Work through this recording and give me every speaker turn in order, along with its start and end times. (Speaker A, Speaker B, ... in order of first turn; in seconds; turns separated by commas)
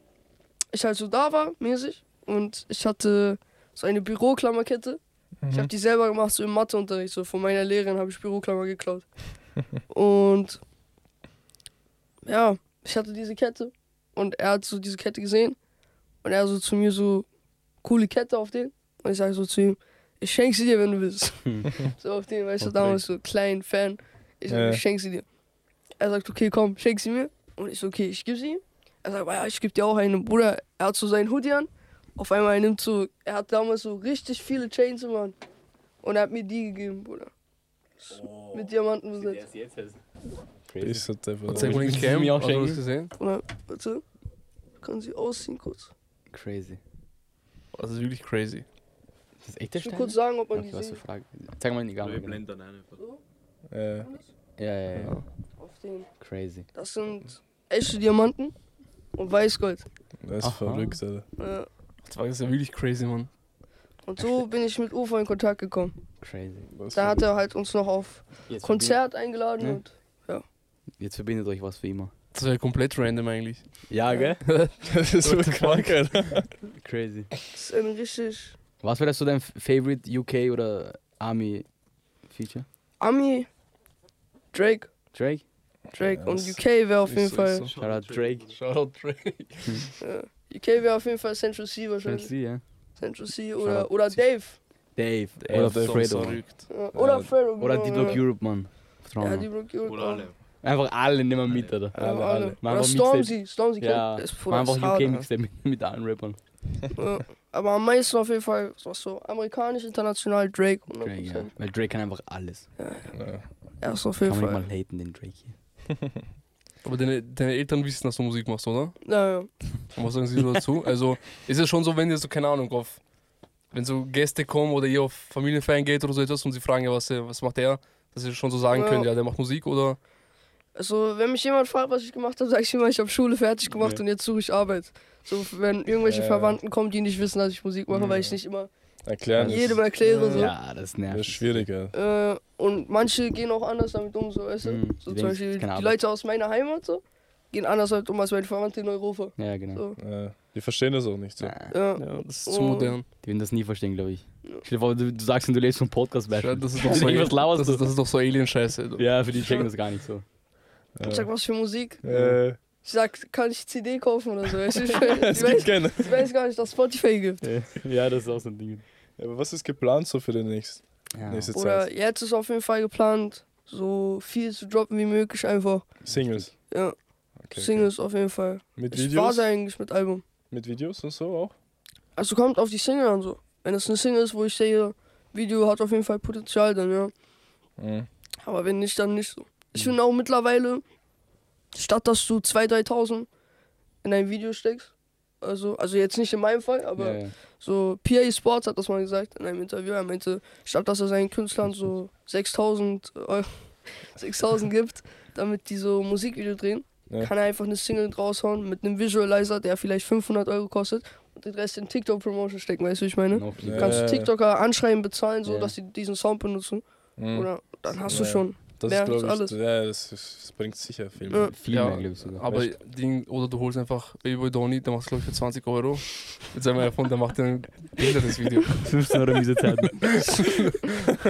Speaker A: 0.7-9.1, Speaker B: 5.4-5.7, Speaker A: 9.9-10.6, Speaker A: 12.2-15.6, Speaker A: 16.2-17.2, Speaker A: 17.8-25.2, Speaker C: 21.4-21.8, Speaker C: 22.6-23.0, Speaker B: 24.5-24.8, Speaker A: 26.0-35.4, Speaker A: 36.0-37.3, Speaker A: 38.0-39.4, Speaker D: 38.2-38.5, Speaker C: 39.1-40.0, Speaker C: 40.7-42.8, Speaker B: 40.8-42.0, Speaker E: 41.5-43.1, Speaker A: 43.2-44.0, Speaker A: 44.8-45.9, Speaker C: 46.3-46.8, Speaker E: 47.7-48.6, Speaker C: 49.4-52.4, Speaker A: 49.8-51.0, Speaker D: 52.0-53.0, Speaker B: 53.7-54.1, Speaker C: 54.6-55.2, Speaker A: 55.6-56.1, Speaker C: 56.2-56.6, Speaker A: 56.7-58.5, Speaker A: 59.1-59.8, Speaker B: 60.2-61.2, Speaker C: 60.4-61.0, Speaker A: 61.4-61.7, Speaker E: 62.0-63.3, Speaker A: 64.0-65.9, Speaker C: 66.2-66.7, Speaker B: 66.7-67.2, Speaker A: 66.9-70.4, Speaker C: 68.5-69.0, Speaker C: 71.0-72.1, Speaker E: 72.3-73.9, Speaker C: 73.9-74.4, Speaker E: 74.4-76.3, Speaker B: 74.8-76.5, Speaker C: 76.8-77.3, Speaker A: 77.5-78.5, Speaker C: 78.8-81.7, Speaker C: 82.3-82.7, Speaker A: 83.0-83.5, Speaker A: 84.5-84.9, Speaker C: 85.1-85.4, Speaker B: 85.9-86.6, Speaker A: 85.9-87.7, Speaker E: 87.0-87.8, Speaker D: 87.7-88.5, Speaker C: 87.8-88.5, Speaker E: 88.5-89.9, Speaker A: 90.0-92.3, Speaker C: 92.0-92.6, Speaker A: 93.0-94.6, Speaker C: 93.6-94.2, Speaker C: 95.0-96.4, Speaker E: 95.4-96.7, Speaker B: 95.5-96.4, Speaker A: 96.7-98.2, Speaker B: 96.9-97.3, Speaker C: 97.6-99.5, Speaker A: 99.2-100.3, Speaker D: 99.8-100.3, Speaker C: 100.6-106.4, Speaker D: 101.5-101.8, Speaker B: 101.9-102.6, Speaker A: 101.9-105.2, Speaker A: 106.9-111.5, Speaker C: 111.0-112.7, Speaker A: 112.8-113.1, Speaker B: 113.1-113.4, Speaker A: 113.8-114.7, Speaker C: 114.2-115.5, Speaker E: 116.8-119.0, Speaker A: 119.0-119.5, Speaker E: 119.9-123.0, Speaker E: 123.7-130.0, Speaker A: 128.7-129.1, Speaker A: 130.8-138.7, Speaker B: 136.0-136.6, Speaker B: 139.0-140.5, Speaker C: 139.3-141.7, Speaker A: 139.4-140.5, Speaker B: 141.1-141.9, Speaker A: 141.9-150.0, Speaker C: 144.6-145.9, Speaker C: 149.4-149.8, Speaker B: 150.0-151.5, Speaker C: 151.4-151.7, Speaker A: 151.7-152.9, Speaker E: 152.0-153.1, Speaker C: 153.2-157.8, Speaker E: 156.3-159.1, Speaker C: 159.0-160.2, Speaker B: 160.9-161.3, Speaker A: 161.0-162.0, Speaker B: 162.0-162.6, Speaker C: 162.1-162.4, Speaker A: 162.8-167.4, Speaker B: 164.8-166.3, Speaker C: 167.4-168.8, Speaker B: 169.2-171.9, Speaker C: 171.1-171.5, Speaker A: 171.5-175.9, Speaker B: 176.0-176.5, Speaker A: 176.7-176.9, Speaker B: 177.4-177.9, Speaker A: 177.5-180.2, Speaker B: 178.8-179.4, Speaker B: 180.5-181.5, Speaker A: 182.2-187.1, Speaker B: 187.8-188.1, Speaker A: 188.4-190.8, Speaker A: 191.7-193.3, Speaker A: 194.0-219.6, Speaker C: 197.0-197.3, Speaker C: 213.3-214.1, Speaker B: 213.6-214.3, Speaker C: 215.4-215.7, Speaker B: 217.2-221.5, Speaker A: 221.3-221.5, Speaker C: 221.4-222.5, Speaker E: 221.7-228.9, Speaker C: 228.7-230.4, Speaker E: 230.0-230.9